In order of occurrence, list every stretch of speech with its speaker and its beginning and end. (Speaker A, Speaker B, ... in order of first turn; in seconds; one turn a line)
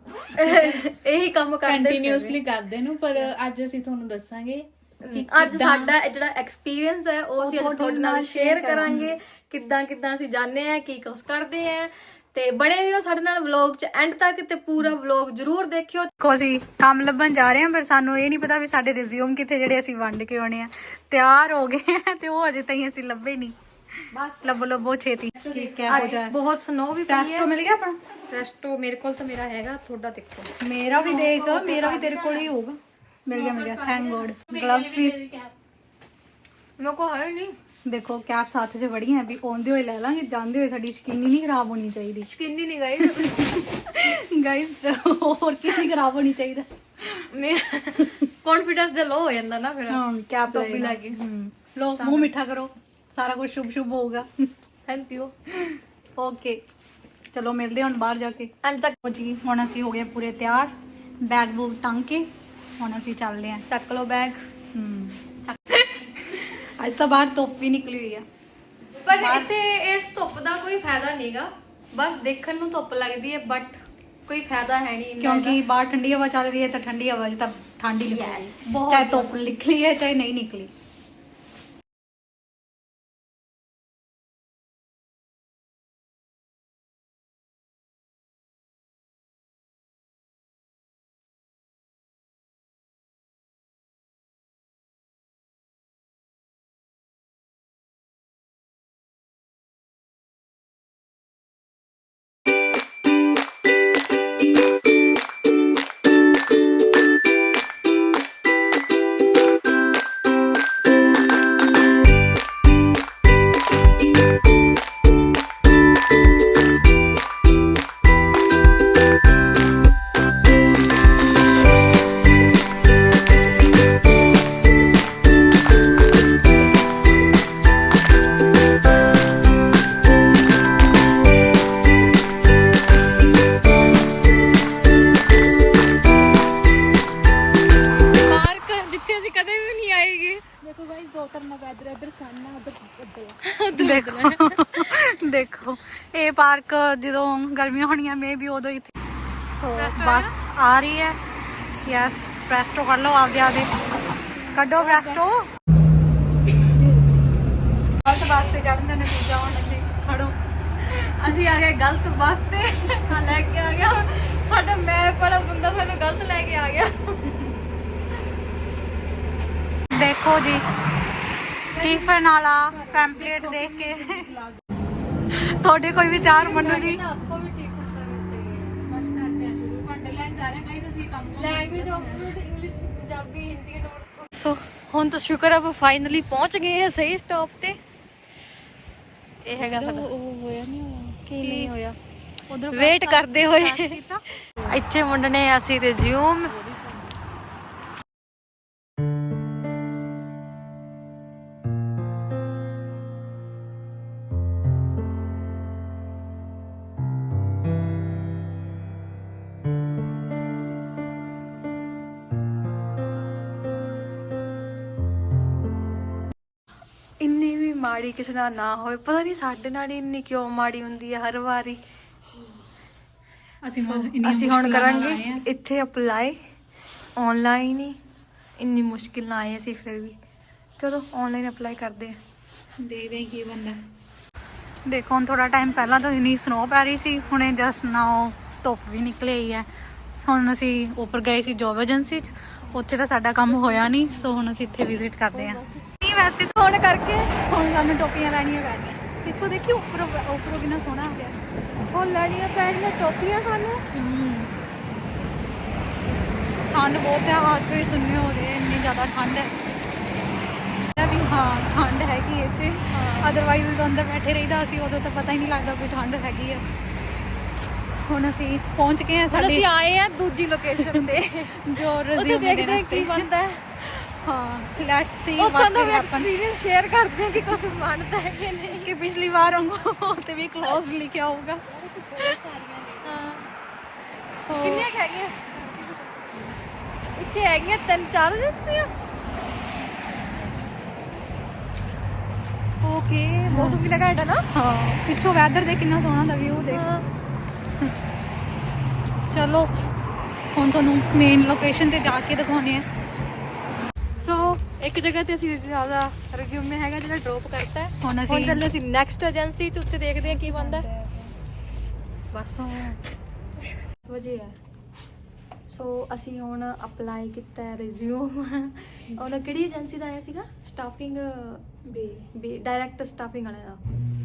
Speaker A: 0.3-2.4
Speaker B: 0.4-0.8
Speaker B: 1.7-5.9
Speaker A: 5.0-16.1
Speaker C: 7.4-9.1
Speaker C: 16.2-23.6
Speaker A: 24.1-24.4
Speaker C: 24.3-26.4
Speaker B: 25.4-26.2
Speaker A: 25.9-27.5
Speaker C: 27.1-28.0
Speaker A: 28.3-32.5
Speaker C: 30.6-35.2
Speaker B: 33.3-35.5
Speaker A: 36.8-37.5
Speaker C: 37.9-42.3
Speaker A: 42.3-43.6
Speaker C: 43.0-47.3
Speaker A: 47.3-51.2
Speaker C: 49.9-54.5
Speaker A: 52.0-52.3
Speaker A: 54.9-55.3
Speaker C: 55.6-56.6
Speaker C: 57.3-63.6
Speaker A: 58.6-59.0
Speaker A: 63.7-64.4
Speaker C: 64.7-65.2
Speaker A: 65.5-66.1
Speaker C: 66.3-68.2
Speaker A: 69.0-75.6
Speaker C: 69.1-69.5
Speaker C: 75.2-80.7
Speaker A: 78.0-79.3
Speaker A: 138.2-140.4
Speaker B: 140.6-143.4
Speaker A: 143.4-145.1
Speaker C: 143.7-151.2
Speaker A: 149.7-150.4
Speaker C: 151.8-153.7
Speaker B: 154.4-155.2
Speaker C: 154.5-155.5
Speaker C: 158.0-160.4
Speaker A: 160.8-167.3
Speaker C: 169.9-170.7
Speaker A: 171.7-173.3
Speaker C: 171.7-174.4
Speaker B: 173.2-174.6
Speaker C: 175.3-177.0
Speaker A: 175.9-178.8
Speaker B: 178.9-182.3
Speaker A: 181.3-187.8
Speaker A: 189.4-190.1
Speaker B: 189.6-191.2
Speaker A: 191.3-192.0
Speaker C: 191.4-191.7
Speaker C: 192.5-194.2
Speaker A: 192.7-194.0
Speaker A: 194.6-196.6
Speaker B: 196.5-197.1
Speaker A: 217.2-221.8
Speaker C: 223.7-225.4
Speaker A: 223.8-226.4
Speaker A: 227.2-228.0
Speaker A: 228.6-230.2
Speaker A: 230.8-232.2
Speaker C: 232.8-233.8
Speaker C: 234.9-246.6
Speaker A: 246.5-247.3
Speaker C: 247.4-251.4
Speaker A: 251.9-253.9
Speaker C: 253.9-254.5
Speaker C: 256.7-259.5
Speaker C: 260.9-266.6
Speaker A: 262.9-263.4
Speaker C: 268.0-269.7
Speaker A: 269.3-273.8
Speaker C: 270.8-273.3
Speaker C: 273.9-276.3
Speaker A: 275.4-278.9
Speaker C: 278.7-281.6
Speaker B: 281.7-283.4
Speaker A: 283.0-283.5
Speaker B: 284.5-284.9
Speaker A: 284.5-285.4
Speaker B: 285.4-286.6
Speaker A: 287.1-288.9
Speaker A: 292.8-294.5
Speaker C: 293.5-293.8
Speaker C: 294.5-296.9
Speaker A: 296.7-297.1
Speaker C: 299.3-299.7
Speaker C: 300.6-302.9
Speaker A: 304.2-310.9
Speaker C: 308.0-308.6
Speaker B: 310.9-311.3
Speaker A: 312.3-312.9
Speaker C: 312.6-313.0
Speaker A: 314.0-314.6
Speaker A: 315.7-321.7
Speaker B: 321.9-322.2
Speaker A: 322.3-323.8